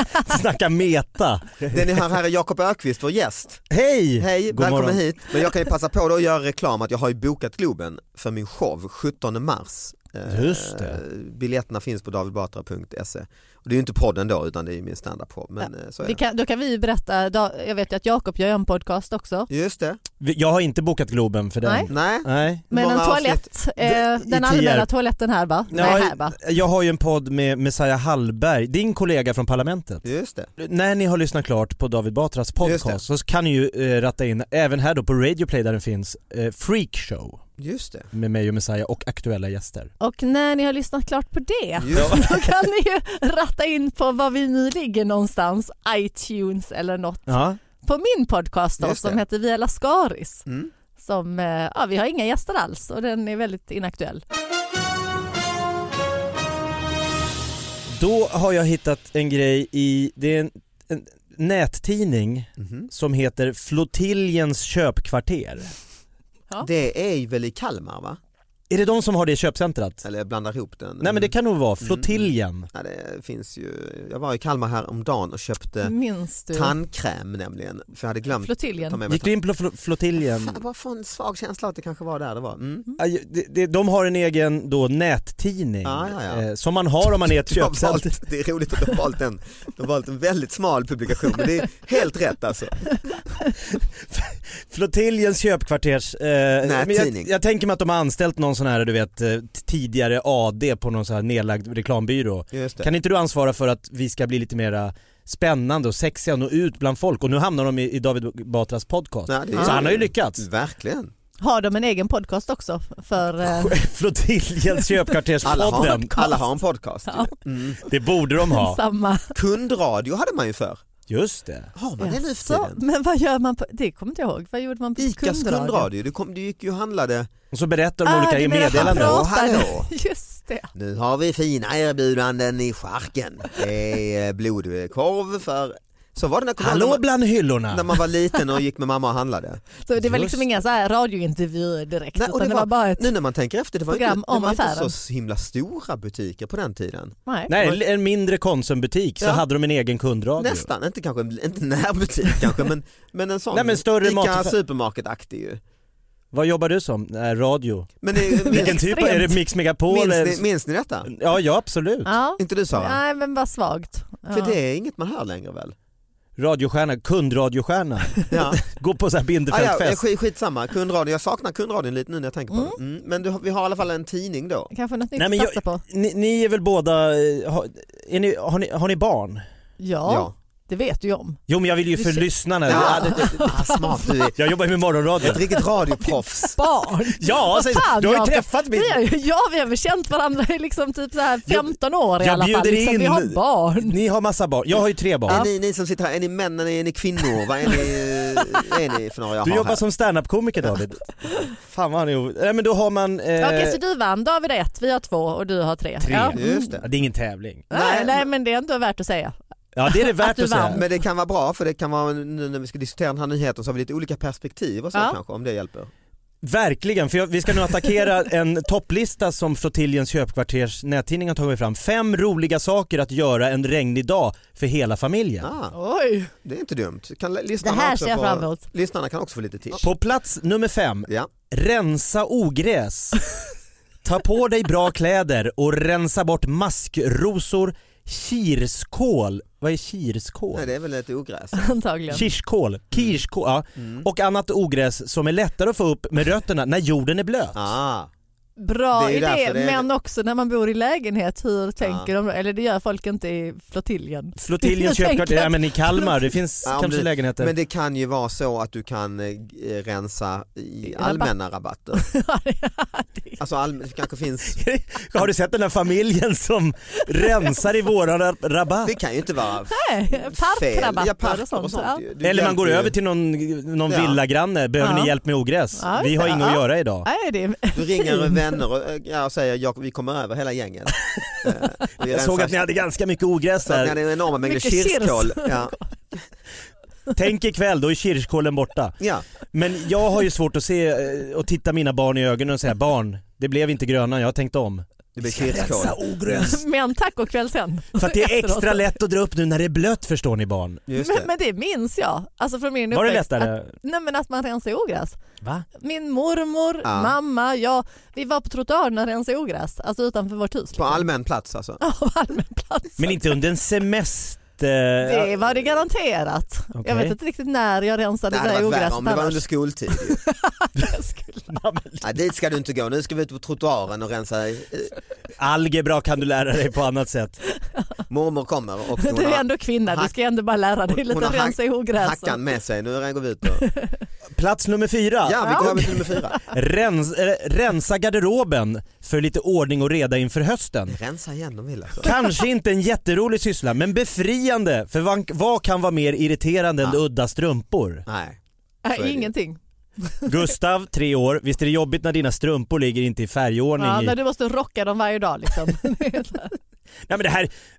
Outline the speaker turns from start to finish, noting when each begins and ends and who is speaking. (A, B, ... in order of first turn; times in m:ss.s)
0:00.2-0:01.8 A
0:01.7-0:03.6 B
0:03.7-0:05.0 A
0:04.2-0:16.2 B
0:10.3-0:11.0 A
0:15.6-0:19.5 C
0:19.5-0:20.0 B
0:20.2-0:22.6 A
0:21.6-0:21.9 C
0:21.9-0:23.4 B
0:22.7-0:26.4 C
0:23.8-0:24.9 A
0:25.7-0:30.0 A
0:30.0-0:30.5 B
0:30.6-0:37.4 A
0:32.6-0:33.0 B
0:37.6-0:38.1 B
0:38.1-0:39.9 A
0:40.0-0:50.4 C
0:41.8-0:42.4 B
0:41.9-0:42.3 A
0:47.3-0:47.6 A
0:48.8-0:49.2 B
0:50.5-0:50.7 B
0:51.0-0:54.2 C
0:57.9-1:05.7 A
1:02.6-1:02.9 B
1:06.6-1:08.2 B
1:08.7-1:10.0 A
1:10.0-1:15.9 B
1:11.0-1:12.7 A
1:15.8-1:16.8 C
1:16.5-1:19.3 B
1:18.4-1:19.0 C
1:19.1-1:20.6 A
1:20.2-1:22.9 B
1:23.0-1:28.1 A
1:25.8-1:26.4 B
1:27.0-1:33.0 B
1:33.8-1:50.4 A
1:36.6-1:37.3 B
1:42.5-1:42.9 B
1:49.3-1:51.1 B
1:49.6-1:49.8 C
1:51.4-1:53.8 C
1:53.4-1:56.2 A
1:54.7-1:56.4 C
1:55.4-1:57.8 B
1:57.1-1:57.3 C
1:57.8-1:58.8 A
1:58.4-1:59.3 C
1:59.3-2:00.8 B
2:01.1-2:01.7 A
2:01.8-2:02.8 B
2:02.0-2:05.9 C
2:05.0-2:07.3 B
2:07.5-2:09.2 A
2:08.0-2:10.7 C
2:08.6-2:09.9 B
2:10.7-2:17.0 B
2:16.6-2:17.9 A
2:17.7-2:19.6 B
2:19.8-2:23.1 C
2:20.0-2:20.4 A
2:22.1-2:27.8 B
2:23.9-2:24.9 C
2:27.3-2:27.6 C
2:27.5-2:30.7 A
2:29.2-2:29.4 B
2:30.4-2:35.6 B
2:33.5-2:34.5 A
2:36.3-2:37.9 A
2:38.0-2:39.0 B
2:38.4-2:39.4 C
2:38.5-2:40.4 A
2:39.8-2:41.1 B
2:41.1-2:42.1 A
2:42.0-2:44.6 C
2:42.4-2:43.0 B
2:44.3-2:45.8 B
2:46.4-2:50.0 A
2:48.3-2:48.6 B
2:49.5-2:54.7 B
2:52.5-2:52.8 C
2:54.7-2:55.8 C
2:55.2-2:59.4 A
2:59.8-3:01.4 C
3:00.1-3:00.3 B
3:01.5-3:03.5 A
3:01.9-3:04.2 C
3:02.7-3:04.5 B
3:04.4-3:05.4 A
3:05.2-3:06.6 B
3:05.3-3:14.0 C
3:07.2-3:09.0 A
3:11.5-3:15.4 A
3:15.3-3:19.8 B
3:19.4-3:23.8 A
3:23.4-3:26.8 C
3:26.0-3:27.6 A
3:26.3-3:26.9 B
3:27.7-3:28.2 B
3:27.7-3:29.4 C
3:29.8-3:30.8 A
3:29.9-3:30.8 C
3:30.7-3:35.9 B
3:36.4-3:45.5 A
3:45.4-3:45.8 B
3:45.7-3:46.3 C
3:46.4-3:49.8 B
3:47.6-3:48.6 C
3:49.8-3:53.3 A
3:54.0-4:00.7 A
4:00.5-4:01.7 B
4:01.6-4:02.3 C
4:02.1-4:07.6 A
4:02.9-4:03.2 B
4:03.8-4:04.1 B
4:07.6-4:08.1 B
4:08.6-4:16.3 C
4:08.9-4:09.9 B
4:11.8-4:12.1 B
4:14.4-4:17.5 A
4:16.6-4:22.0 B
4:21.0-4:21.3 C
4:22.0-4:23.4 C
4:23.4-4:24.6 B
4:24.5-4:29.0 A
4:28.8-4:32.9 B
4:29.7-4:32.0 C
4:32.2-4:37.1 A
4:33.9-4:34.2 B
4:34.8-4:35.1 C
4:35.8-4:38.6 C
4:36.1-4:36.5 B
4:37.7-4:42.8 B
4:42.1-4:43.9 A
4:43.6-4:45.8 B
4:44.3-4:45.8 C
4:47.1-4:49.0 A
4:49.0-4:49.2 B
4:49.5-4:56.6 A
4:55.2-4:56.0 B
4:56.2-4:59.0 C
4:58.0-5:00.8 A
5:00.9-5:01.3 B
5:01.0-5:05.2 C
5:02.9-5:03.7 A
5:05.8-5:11.0 C
5:06.8-5:07.2 B
5:10.8-5:11.8 B
5:11.8-5:13.2 C
5:13.0-5:15.3 A
5:15.0-5:21.5 C
5:15.4-5:15.7 B
5:16.8-5:17.1 A
5:18.3-5:20.2 B
5:21.5-5:22.0 A
5:22.0-5:24.9 B
5:25.4-5:27.4 A
5:28.1-5:30.1 B
5:29.0-5:32.4 C
5:30.9-5:33.7 B
5:33.6-5:34.0 C
5:34.4-5:41.0 A
5:35.2-5:36.4 B
5:35.4-5:36.4 C
5:40.9-5:42.1 B
5:42.0-5:48.0 A
5:48.1-5:48.4 B
5:48.8-5:50.5 C
5:48.9-5:49.3 B
5:50.2-5:54.2 A
5:53.8-5:56.5 C
5:57.1-5:57.5 A